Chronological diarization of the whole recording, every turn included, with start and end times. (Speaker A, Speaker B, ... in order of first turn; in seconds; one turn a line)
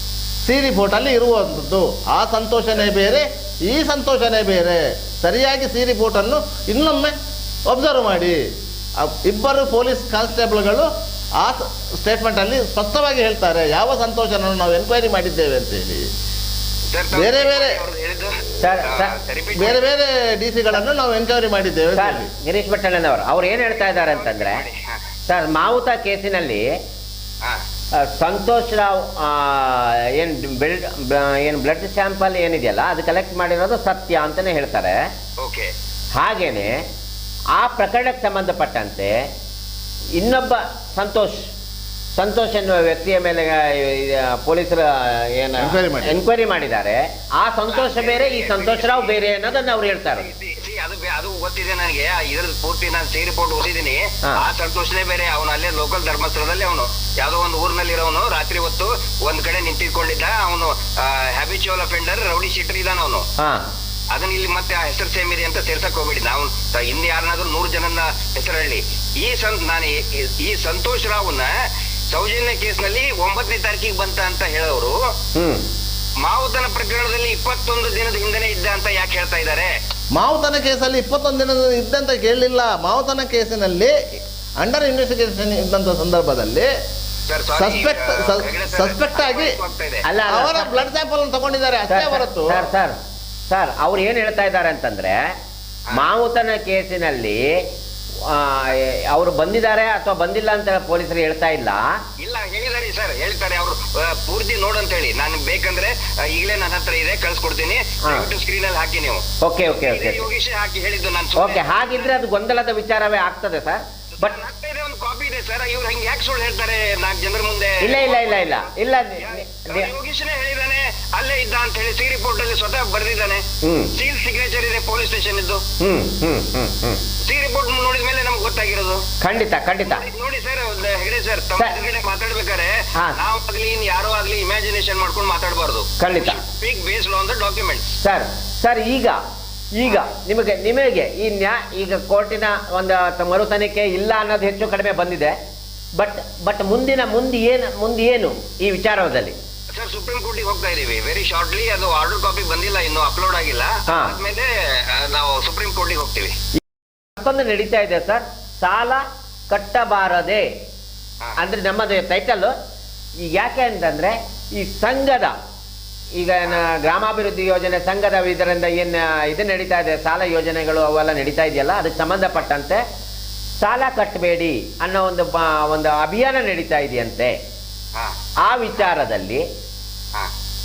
Speaker A: 0.4-7.2
Speaker A: 7.7-8.4
Speaker A: 9.0-16.1
Speaker B: 16.9-19.9
Speaker A: 17.1-17.8
Speaker C: 18.6-19.1
Speaker A: 19.5-22.3
Speaker C: 21.9-24.6
Speaker B: 23.7-25.0
Speaker C: 25.3-26.6
Speaker C: 28.0-35.0
Speaker B: 35.4-35.7
Speaker C: 36.2-36.8
Speaker C: 37.6-39.1
Speaker C: 40.2-41.5
Speaker C: 42.1-50.3
Speaker A: 45.6-46.2
Speaker B: 47.7-49.2
Speaker B: 50.1-63.3
Speaker C: 63.4-63.7
Speaker B: 64.1-71.5
Speaker B: 72.1-75.0
Speaker C: 75.4-75.6
Speaker B: 76.2-79.7
Speaker A: 80.2-83.9
Speaker A: 84.6-86.7
Speaker B: 87.3-90.0
Speaker A: 87.5-89.6
Speaker C: 90.1-90.9
Speaker A: 90.3-92.7
Speaker C: 91.9-93.0
Speaker C: 93.5-95.2
Speaker C: 95.9-97.4
Speaker C: 98.3-101.8
Speaker B: 102.2-112.1
Speaker C: 109.4-110.2
Speaker C: 111.4-114.4
Speaker B: 114.2-123.4
Speaker C: 117.8-119.9
Speaker C: 123.6-123.9
Speaker B: 124.0-125.6
Speaker C: 125.8-127.0
Speaker B: 127.2-129.0
Speaker C: 129.2-130.1
Speaker B: 129.8-138.0
Speaker C: 136.0-136.4
Speaker C: 138.0-139.2
Speaker C: 139.8-145.3
Speaker C: 146.0-149.3
Speaker B: 149.7-156.3
Speaker C: 153.9-154.1
Speaker C: 157.2-160.5
Speaker C: 161.4-162.5
Speaker C: 163.2-165.4
Speaker C: 166.2-172.8
Speaker C: 173.6-177.3
Speaker C: 178.4-179.4